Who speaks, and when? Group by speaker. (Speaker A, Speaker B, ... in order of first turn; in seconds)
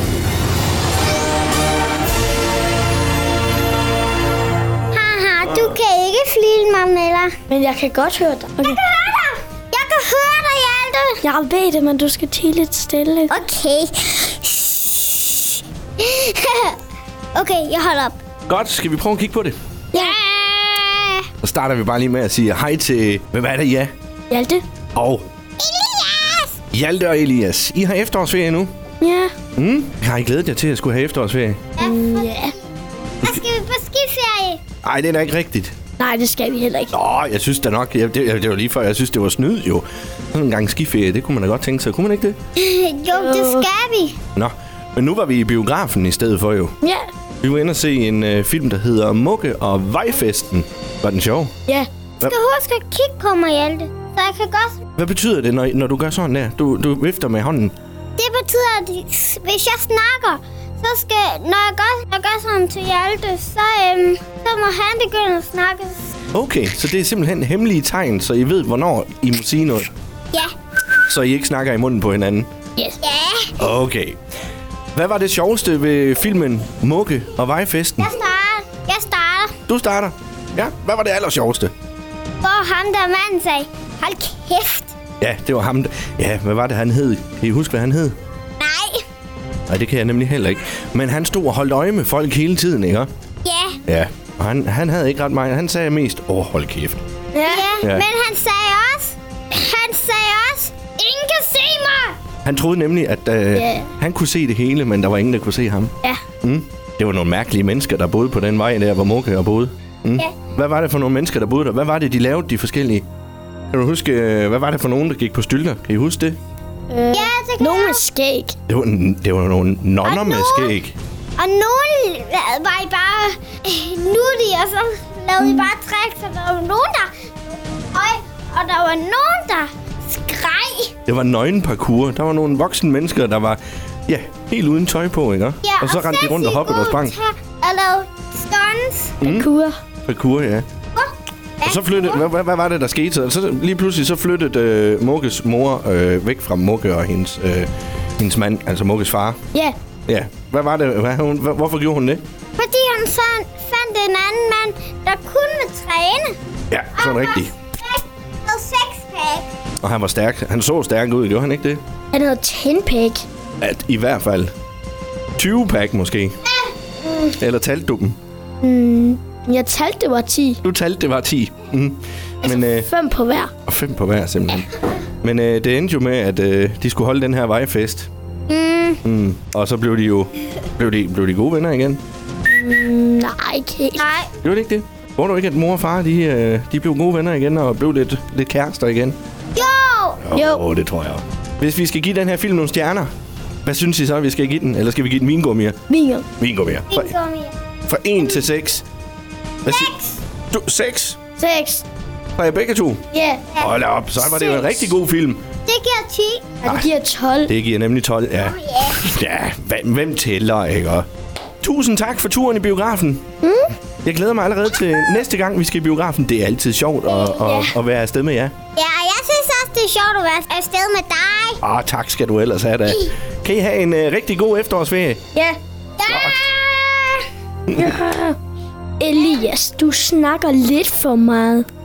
Speaker A: 4.9-7.4, 8.6-11.2, 13.3-16.8, 17.4-18.2, 19.9-21.3, 25.6-26.6, 31.8-32.7, 33.2-34.6, 42.6-44.2, 52.2-54.8, 58.2-66.1, 73.0-73.6, 78.0-79.6, 82.4-84.9, 88.6-89.0, 93.4-93.8, 97.5-102.2, 117.1-118.0, 120.0-120.8, 121.4-130.9, 135.6-139.2, 140.9-142.2, 152.6-156.4, 156.9-159.5, 178.5-179.0, 184.0-184.3, 189.6-190.3, 196.9-197.6, 199.7-200.2, 203.5-204.9, 205.7-206.6, 208.5-209.0, 218.8-221.6, 226.0-227.3
Speaker B: 7.5-8.8, 11.2-13.4, 19.9-20.2, 24.3-24.6, 29.0-29.3, 31.8-32.5, 36.0-36.9, 43.1-43.6, 46.8-47.1, 97.3-97.8, 103.5-103.9, 116.9-118.5, 125.4-125.7, 139.2-139.8, 162.1-163.2, 168.6-170.6, 172.4-173.5, 182.5-184.1, 190.3-190.7, 195.9-196.3, 201.4-201.8, 203.1-203.4, 206.6-207.5, 213.4-213.7, 217.3-217.8, 227.7-228.4, 229.0-231.7
Speaker C: 18.5-19.6, 21.4-23.9, 24.9-25.3, 26.7-28.7, 29.6-31.7, 34.8-35.7, 36.9-42.4, 44.4-46.8, 47.4-51.5, 55.0-57.7, 66.3-69.9, 71.1-72.5, 73.6-74.2, 75.0-78.1, 79.7-81.7, 85.2-88.2, 89.7-93.1, 93.9-97.0, 102.5-113.0, 113.7-116.4, 118.7-121.0, 131.1-137.2, 139.2-139.5, 140.1-140.7, 141.6-149.4, 150.1-152.2, 156.7-157.5, 159.8-161.8, 163.6-164.5, 165.4-166.3, 167.3-168.2, 170.6-172.9, 173.7-178.1, 179.0-182.0, 184.4-189.2, 190.2-193.1, 193.7-195.8, 196.4-197.1, 197.9-198.8, 199.7-199.9, 200.5-201.2, 202.4-203.1, 203.6-205.5, 206.7-206.9, 207.5-211.1, 211.6-213.2, 214.0-218.6, 221.6-225.2, 226.1-226.4, 227.7-227.9